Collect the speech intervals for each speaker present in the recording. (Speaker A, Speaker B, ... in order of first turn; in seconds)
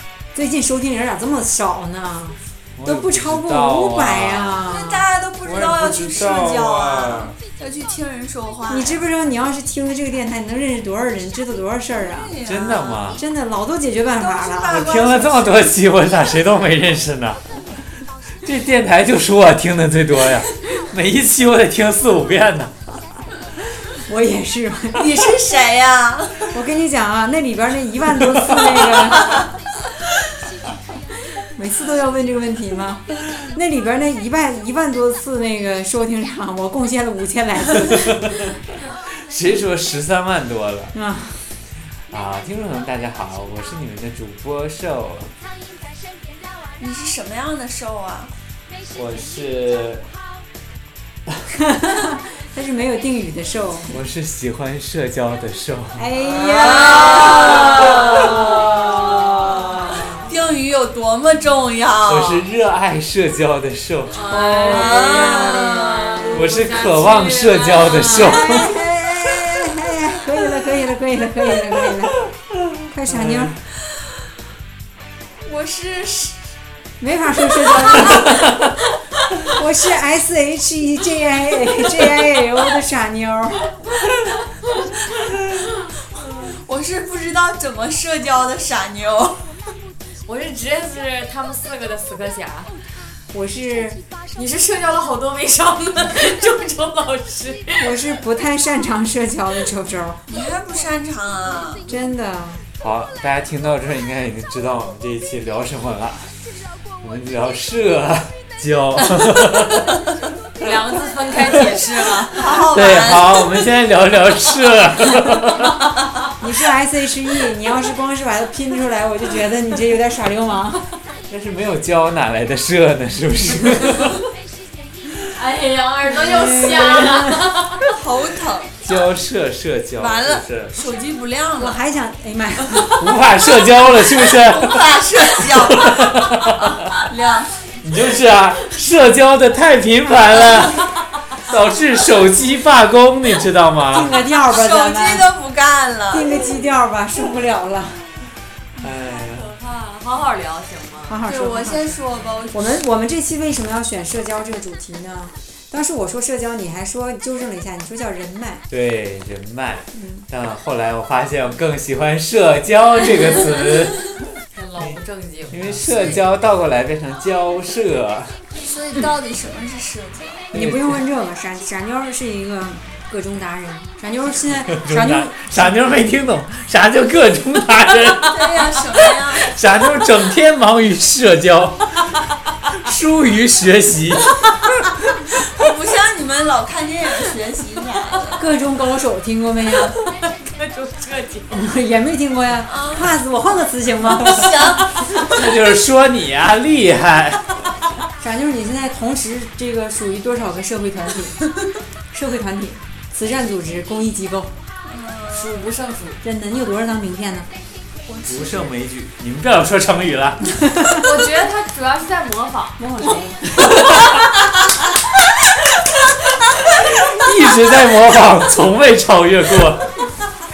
Speaker A: 0.3-5.0, 8.7-12.3, 13.2-14.9, 23.9-25.4, 26.5-29.5, 31.5-38.5, 40.9-41.4, 51.5-54.0, 56.0-60.2, 64.3-65.9, 68.0-72.2, 72.8-73.5, 77.0-78.5, 79.4-83.8, 93.3-94.0, 97.8-100.2, 101.9-102.6, 116.4-121.0, 126.1-127.5, 131.6-133.0, 143.9-145.3, 146.1-148.0, 151.1-152.0, 152.5-158.6, 159.9-160.2, 170.5-175.8, 188.4-190.0, 191.5-194.5, 198.2-201.5, 202.1-204.5, 206.2-207.5, 212.8-213.7
Speaker B: 2.8-4.6, 5.4-7.3, 12.4-13.2, 14.7-17.4, 18.4-22.7, 28.4-28.7, 37.9-38.6, 39.1-41.0, 42.1-45.3, 48.9-50.0, 53.9-56.1, 62.0-64.3, 66.3-68.8, 73.0-73.6, 102.8-106.3, 107.0-110.1, 111.4-111.8, 112.4-115.8, 121.3-124.2, 128.8-130.8, 132.9-137.0, 137.8-140.8, 141.4-144.2, 148.8-149.5, 158.7-164.2, 165.5-168.4, 170.5-171.0, 174.7-178.7, 179.4-182.1, 182.7-184.4, 195.2-197.4, 208.3-210.6, 216.6-220.0
Speaker C: 4.6-9.0, 11.9-13.2, 14.1-15.7, 24.9-26.5, 46.8-48.3, 56.2-62.4, 64.5-66.5, 68.3-69.6, 75.4-76.4, 77.8-78.3, 86.4-89.5, 100.3-101.9, 112.3-113.5, 127.9-128.7, 130.0-131.8, 134.3-137.5, 144.5-146.4, 151.2-152.8, 165.8-166.2, 168.6-170.5, 178.2-179.6, 185.4-188.4, 192.6-193.1, 194.1-195.6, 204.8-205.7, 208.1-208.7
Speaker D: 57.1-60.0, 64.1-68.5, 90.2-92.7, 94.3-97.9, 110.6-112.6, 125.3-128.0, 149.3-151.2, 164.5-165.8, 190.2-191.6, 205.3-206.2, 210.9-212.8